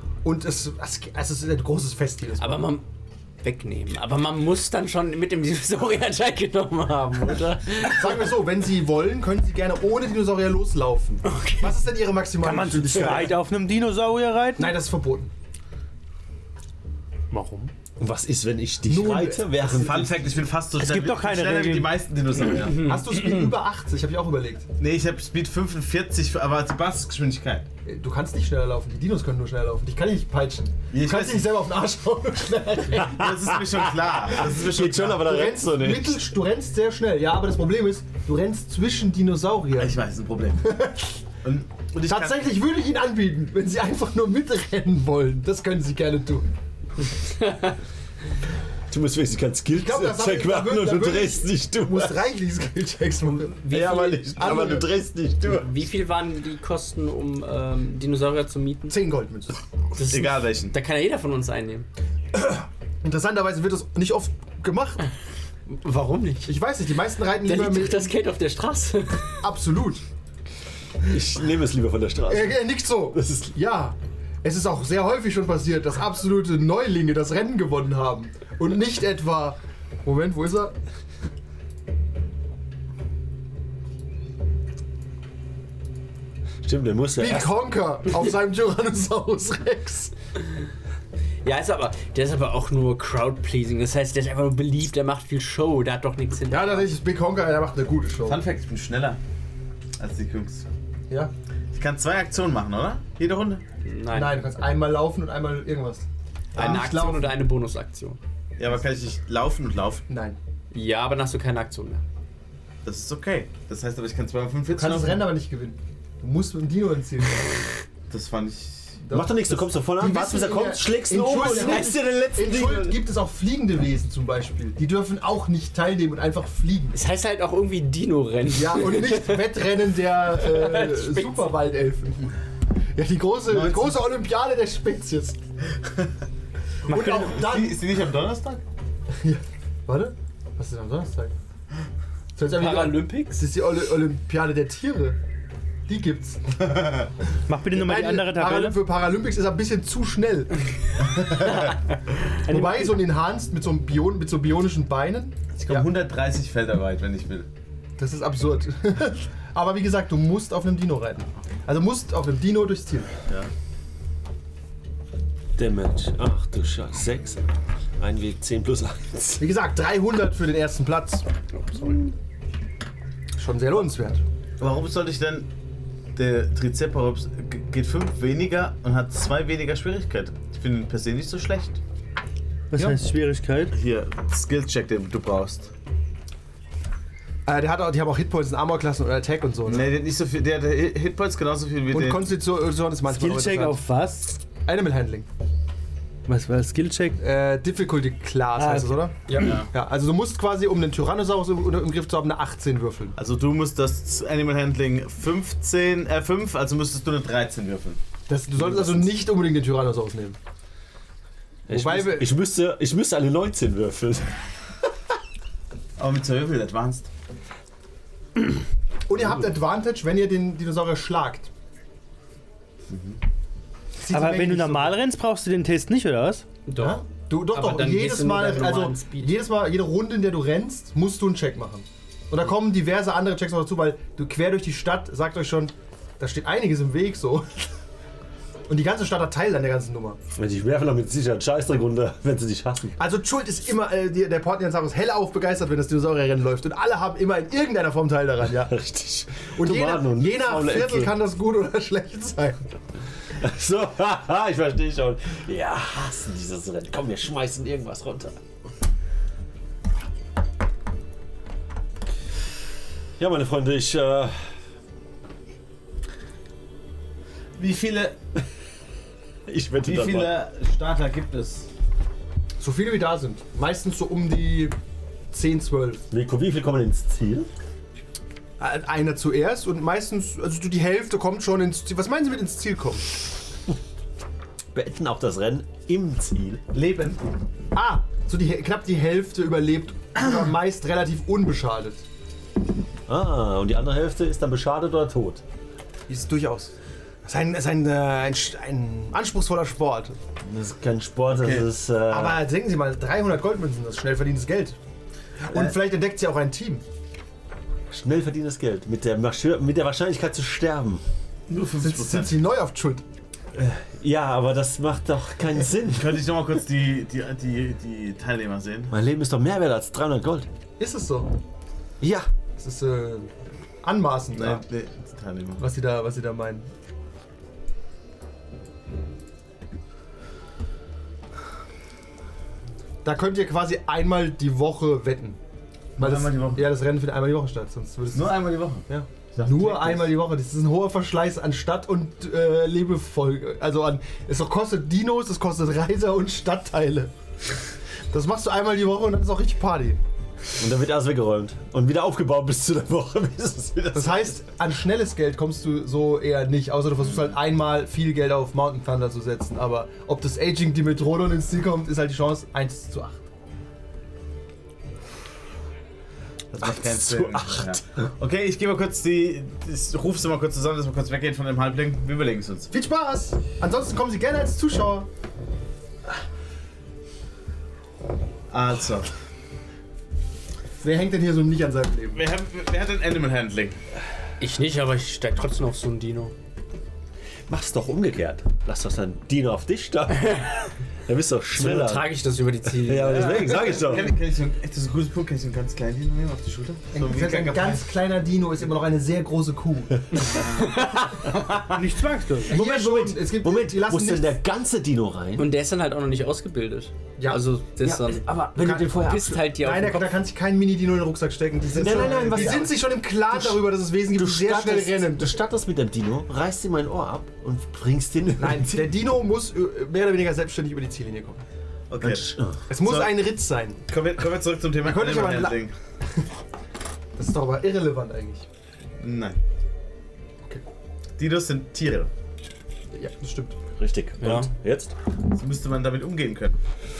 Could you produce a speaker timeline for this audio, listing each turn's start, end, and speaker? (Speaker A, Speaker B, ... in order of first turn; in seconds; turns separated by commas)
Speaker A: 0.2-2.7, Speaker B: 2.4-2.9, Speaker B: 3.4-8.3, Speaker A: 7.8-13.4, Speaker B: 11.2-11.8, Speaker C: 12.4-14.8, Speaker A: 14.6-15.3, Speaker C: 17.3-17.7, Speaker D: 18.0-20.2, Speaker A: 18.9-20.1, Speaker E: 19.7-22.9, Speaker C: 20.8-22.0, Speaker A: 22.7-24.7, Speaker E: 24.8-27.7, Speaker A: 27.8-33.6, Speaker E: 30.9-31.5, Speaker E: 33.0-35.2, Speaker D: 33.2-36.2, Speaker A: 34.4-40.0, Speaker E: 39.8-40.7, Speaker A: 40.6-41.2, Speaker E: 41.4-42.5, Speaker A: 42.1-46.5, Speaker B: 47.3-47.7, Speaker D: 48.9-52.2, Speaker A: 49.7-54.9, Speaker B: 53.2-54.8, Speaker D: 53.7-55.7, Speaker B: 55.4-59.0, Speaker A: 58.9-59.6, Speaker B: 59.9-61.9, Speaker E: 60.1-60.7, Speaker A: 62.3-65.0, Speaker B: 65.7-66.5, Speaker A: 66.5-68.1, Speaker B: 67.4-69.4, Speaker A: 69.4-70.0, Speaker D: 71.0-73.5, Speaker A: 72.3-80.8, Speaker D: 86.6-87.5, Speaker A: 87.2-90.1, Speaker B: 91.4-96.9, Speaker A: 96.5-98.4, Speaker E: 98.2-99.2, Speaker E: 100.0-100.7, Speaker E: 101.7-103.6, Speaker B: 103.8-104.4, Speaker A: 104.1-107.4, Speaker B: 106.5-108.2, Speaker E: 106.6-106.8, Speaker E: 108.6-110.0, Speaker A: 110.1-110.4, Speaker B: 110.7-112.0, Speaker E: 112.8-115.3, Speaker A: 114.7-117.5, Speaker E: 118.1-119.0, Speaker A: 119.0-126.9, Speaker D: 119.1-123.0, Speaker B: 126.9-129.7, Speaker A: 128.5-132.3, Speaker B: 130.3-131.6, Speaker A: 132.9-135.4, Speaker E: 133.5-134.0, Speaker A: 136.9-137.8, Speaker E: 136.9-138.6, Speaker A: 139.1-141.3, Speaker A: 142.3-145.2, Speaker B: 142.5-143.4, Speaker A: 145.9-146.6, Speaker C: 147.5-148.8, Speaker A: 147.7-151.7, Speaker C: 152.4-153.0, Speaker A: 152.4-155.9, Speaker E: 155.5-157.5, Speaker A: 158.0-163.1, Speaker D: 165.6-167.4, Speaker D: 168.0-169.5, Speaker A: 169.4-172.1, Speaker A: 173.4-174.2, Speaker E: 174.6-175.5, Speaker E: 176.1-181.8, Speaker C: 182.7-183.7, Speaker E: 183.7-185.7, Speaker A: 187.4-189.9, Speaker E: 189.7-192.3, Speaker A: 191.9-193.8, Speaker C: 193.0-194.5, Speaker A: 194.6-195.2, Speaker C: 196.2-197.2, Speaker A: 197.2-203.2, Speaker C: 198.6-199.6, Speaker E: 199.3-199.7, Speaker E: 203.2-208.0, Speaker A: 208.3-210.4, Speaker E: 208.7-209.1, Speaker D: 211.7-214.4, Speaker A: 211.7-212.3, Speaker E: 216.0-217.1, Speaker A: 219.1-221.5, Speaker E: 222.9-223.2, Speaker A: 224.0-225.0, Speaker C: 224.1-226.5, Speaker B: 226.7-229.4, Speaker A: 226.8-237.7, Speaker A: 238.7-240.2, Speaker D: 240.3-243.0, Speaker A: 243.0-248.8, Speaker D: 248.5-251.1, Speaker A: 249.5-252.7, Speaker D: 253.4-258.4, Speaker D: 263.2-264.3, Speaker E: 267.6-268.2, Speaker D: 269.5-270.3, Speaker E: 269.8-271.7, Speaker A: 272.6-274.8, Speaker A: 275.3-276.0, Speaker D: 276.1-277.5, Speaker A: 278.6-283.1, Speaker D: 284.7-286.6, Speaker E: 286.7-287.2, Speaker A: 287.7-292.0, Speaker D: 293.1-295.4, Speaker A: 296.1-300.2, Speaker D: 300.4-302.4, Speaker E: 301.3-301.7, Speaker A: 302.1-304.8, Speaker A: 305.4-306.8, Speaker D: 307.9-311.0, Speaker E: 311.5-312.4, Speaker A: 311.8-313.0, Speaker D: 313.5-316.2, Speaker E: 315.9-318.9, Speaker D: 318.9-320.5, Speaker A: 320.8-321.3, Speaker D: 322.0-322.3, Speaker A: 322.6-323.3, Speaker A: 323.8-324.6, Speaker E: 324.3-325.6, Speaker A: 325.6-326.7, Speaker A: 333.0-335.4, Speaker A: 336.0-347.1, Speaker E: 336.0-336.7, Speaker E: 338.1-340.2, Speaker A: 348.1-350.0, Speaker D: 350.6-354.4, Speaker A: 353.9-363.2, Speaker E: 366.5-372.7, Speaker D: 366.6-368.1, Speaker A: 372.7-375.1, Speaker E: 378.5-379.1, Speaker A: 380.8-382.2, Speaker E: 382.1-383.8, Speaker B: 384.4-386.3, Speaker D: 387.5-392.1, Speaker B: 391.5-393.8, Speaker D: 392.7-394.1, Speaker E: 393.2-397.9, Speaker A: 396.9-400.0, Speaker B: 400.3-401.3, Speaker C: 401.7-403.1, Speaker A: 402.4-404.3, Speaker D: 402.7-405.5, Speaker B: 405.4-410.1, Speaker A: 407.2-407.4, Speaker D: 407.8-409.4, Speaker A: 408.6-408.9, Speaker A: 409.5-415.4, Speaker D: 411.7-418.9, Speaker A: 418.4-421.4, Speaker E: 421.9-423.3, Speaker D: 422.0-422.6, Speaker A: 422.7-423.8, Speaker E: 423.9-425.7, Speaker A: 424.8-425.6, Speaker A: 427.1-428.4, Speaker E: 429.0-429.4, Speaker E: 431.2-432.1, Speaker A: 432.9-433.6, Speaker D: 433.8-434.9, Speaker E: 435.3-436.6